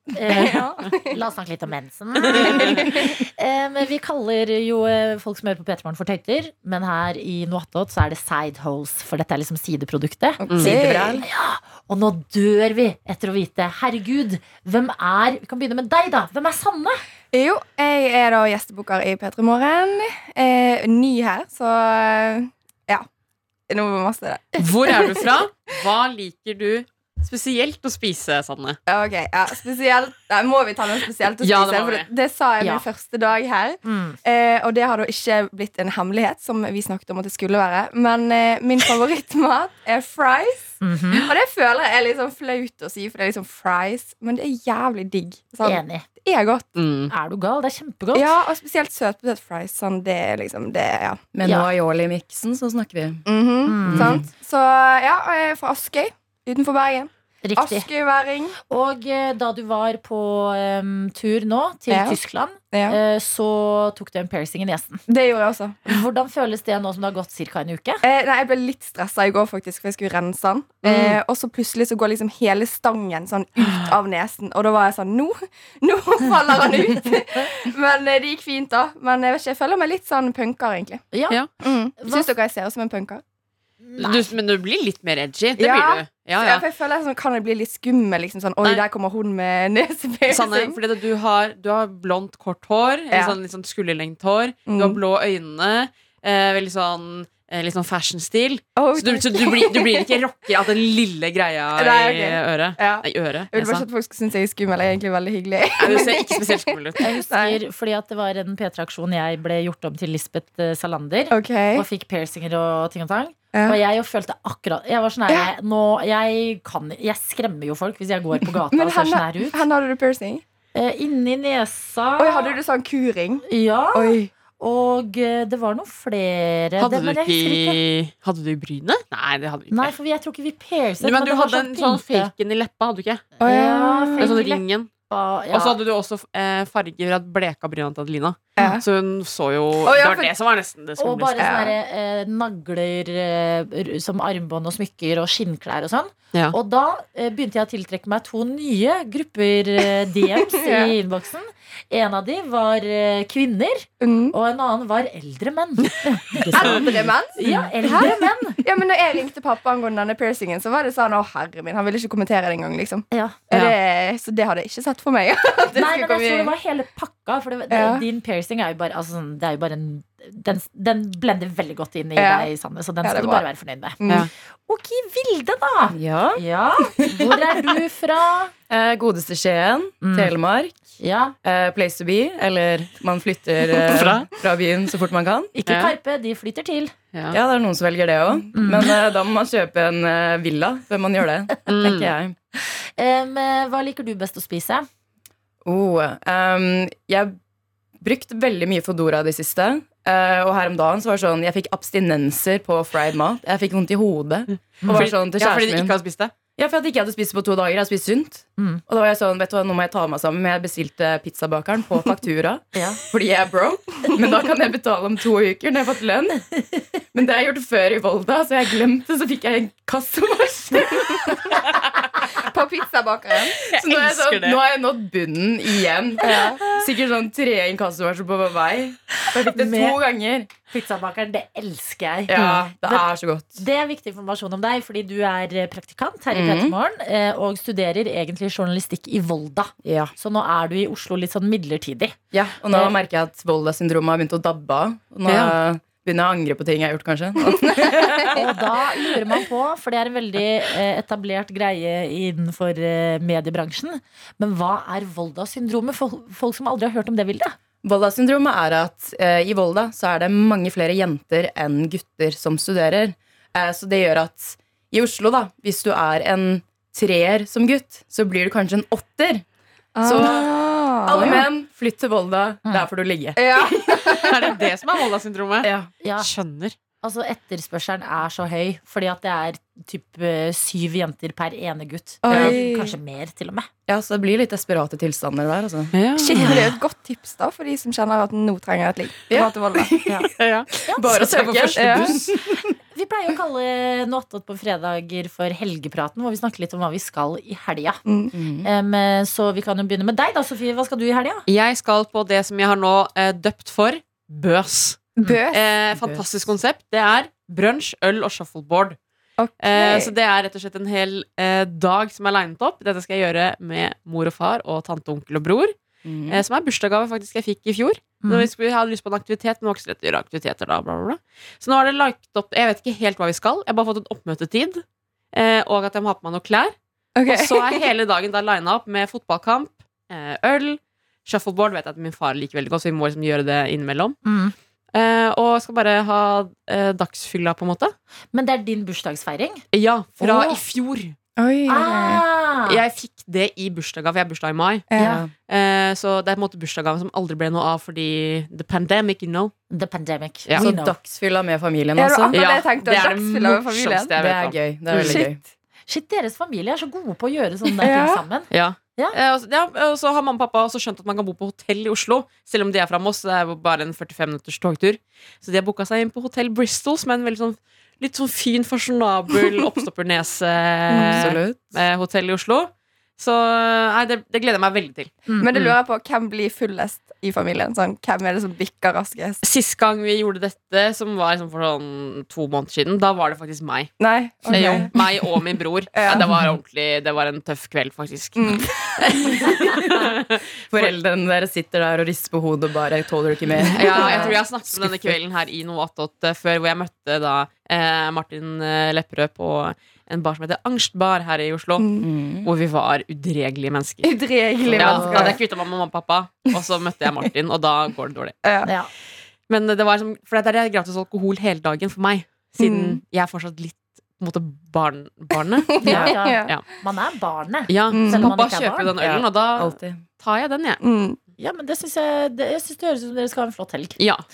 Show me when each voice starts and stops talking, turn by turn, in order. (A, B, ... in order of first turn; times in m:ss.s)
0:00.1-0:17.0 A
0:00.3-0:01.2 B
0:02.4-0:02.8 C
0:02.4-0:03.1 B
0:10.4-0:11.2 B
0:10.6-0:11.3 D
0:17.3-0:23.1 B
0:23.7-0:25.4 B
0:24.6-0:28.8 C
0:28.9-0:46.8 B
0:31.4-0:32.1 C
0:32.6-0:32.9 A
0:33.8-0:34.2 A
0:40.8-0:41.3 A
0:45.6-0:46.0 A
0:46.8-0:47.1 C
0:47.1-0:48.3 A
0:48.1-0:51.2 B
0:51.3-0:53.2 D
0:51.4-0:51.7 A
0:53.3-0:58.6 B
0:53.7-0:54.2 A
0:53.8-0:54.2 D
0:57.4-0:57.9 A
0:58.7-1:05.0 A
1:01.9-1:02.2 B
1:02.7-1:03.0 B
1:05.1-1:06.0 B
1:05.9-1:08.0 A
1:08.0-1:21.0 B
1:21.1-1:21.4 A
1:21.6-1:23.2 B
1:22.0-1:22.3 A
1:23.8-1:24.3 A
1:24.0-1:26.6 C
1:25.6-1:30.8 B
1:30.3-1:43.8 C
1:33.1-1:33.4 B
1:34.7-1:35.0 B
1:38.8-1:40.2 B
1:41.8-1:46.6 B
1:45.8-1:47.0 C
1:47.0-1:59.6 A
1:47.3-1:47.6 B
1:51.3-1:51.9 B
1:53.5-1:53.8 B
1:58.7-2:00.4 B
2:00.7-2:02.6 A
2:02.2-2:04.3 B
2:03.5-2:07.8 A
2:06.8-2:09.9 C
2:09.7-2:12.3 A
2:11.0-2:13.3 C
2:13.4-2:14.4 B
2:13.4-2:15.8 A
2:14.2-2:14.9 C
2:15.5-2:21.4 C
2:18.6-2:18.8 B
2:19.8-2:20.3 B
2:21.0-2:38.6 A
2:21.4-2:21.8 B
2:30.4-2:31.0 B
2:34.0-2:34.4 B
2:36.5-2:46.5 B
2:36.6-2:36.9 C
2:43.1-2:43.4 A
2:45.8-2:54.0 A
2:47.7-2:48.0 B
2:52.2-2:52.5 B
2:53.0-2:53.5 B
2:54.0-2:54.3 B
2:54.7-2:58.5 A
2:55.9-2:56.4 D
2:57.0-2:57.4 D
2:58.7-3:00.8 D
3:00.0-3:00.3 A
3:01.0-3:01.4 A
3:01.4-3:05.5 D
3:03.8-3:04.3 C
3:05.5-3:07.0 A
3:05.7-3:06.0 C
3:07.1-3:07.4 C
3:07.3-3:12.4 D
3:08.5-3:08.9 A
3:11.7-3:12.1 C
3:12.6-3:14.9 A
3:15.6-3:17.4 D
3:18.0-3:26.0 D
3:24.8-3:25.1 A
3:24.9-3:26.3 C
3:26.6-3:36.5 D
3:32.7-3:33.0 A
3:37.1-3:41.6 D
3:42.4-3:43.6 B
3:43.6-3:44.6 C
3:43.6-3:50.5 D
3:46.2-3:46.6 B
3:49.2-3:50.0 A
3:50.7-4:02.2 A
3:52.3-3:53.6 D
3:52.3-3:52.7 C
3:56.3-3:56.8 D
3:59.8-4:00.1 D
4:02.3-4:08.4 D
4:05.3-4:05.5 C
4:07.8-4:08.3 B
4:08.3-4:17.6 A
4:17.8-4:29.4 D
4:30.0-4:31.4 B
4:30.0-4:30.5 D
4:31.0-4:34.1 D
4:33.4-4:34.6 B
4:34.1-4:36.8 C
4:35.6-4:35.9 D
4:36.0-4:36.3 A
4:37.0-4:43.7 A
4:42.2-4:43.0 B
4:42.3-4:42.6 D
4:43.9-4:45.9 D
4:45.9-4:46.6 C
4:46.2-4:49.9 B
4:46.3-4:46.8 A
4:49.3-4:50.3 D
4:50.4-4:52.2 C
4:50.9-4:52.7 D
4:51.8-4:52.2 B
4:52.9-4:58.0 A
4:58.1-4:58.3 B
4:58.3-4:58.7 D
4:58.6-5:01.4 A
5:01.5-5:09.0 C
5:05.2-5:05.6 B
5:05.9-5:06.5 D
5:09.4-5:10.1 B
5:09.6-5:15.7 C
5:16.0-5:16.4 D
5:16.3-5:26.8 C
5:18.2-5:18.5 A
5:27.2-5:27.8 B
5:27.3-5:34.2 C
5:34.2-5:34.5 A
5:34.9-5:38.0 C
5:38.3-5:39.6 A
5:39.7-5:41.2 C
5:40.2-5:40.6 A
5:41.4-5:42.2 B
5:41.7-5:42.8 A
5:42.7-5:44.9 C
5:44.9-5:45.2 B
5:45.0-5:45.2 A
5:45.0-5:45.3 D
5:45.5-5:49.5 C
5:49.7-5:51.0 A
5:50.6-5:52.4 D
5:52.0-5:54.1 B
5:52.3-5:55.2 C
5:54.2-5:55.4 D
5:54.9-5:55.2 A
5:55.0-5:55.3 B
5:55.9-5:59.2 A
5:57.8-5:58.2 B
5:58.5-6:15.8 C
6:10.9-6:11.4 B
6:11.1-6:11.8 D
6:15.4-6:19.4 B
6:19.4-6:23.9 C
6:24.0-6:24.9 B
6:24.5-6:30.9 C
6:24.5-6:24.9 A
6:25.9-6:26.3 B
6:28.4-6:29.4 B
6:29.4-6:30.1 D
6:30.7-6:35.2 D
6:33.6-6:44.2 C
6:33.7-6:34.4 B
6:41.8-6:42.1 B
6:42.0-6:42.5 D
6:44.0-6:45.4 B
6:44.7-6:45.0 D
6:44.7-6:48.4 C
6:44.8-6:45.4 A
6:48.4-6:48.7 B
6:48.6-6:48.9 A
6:49.5-6:56.6 C
6:52.6-6:53.0 B
6:55.8-6:56.6 B
6:55.8-6:58.9 A
6:57.7-7:00.8 C
6:57.9-6:58.3 B
6:59.0-7:00.0 D
7:00.8-7:01.2 B
7:01.4-7:04.0 A
7:04.0-7:04.2 C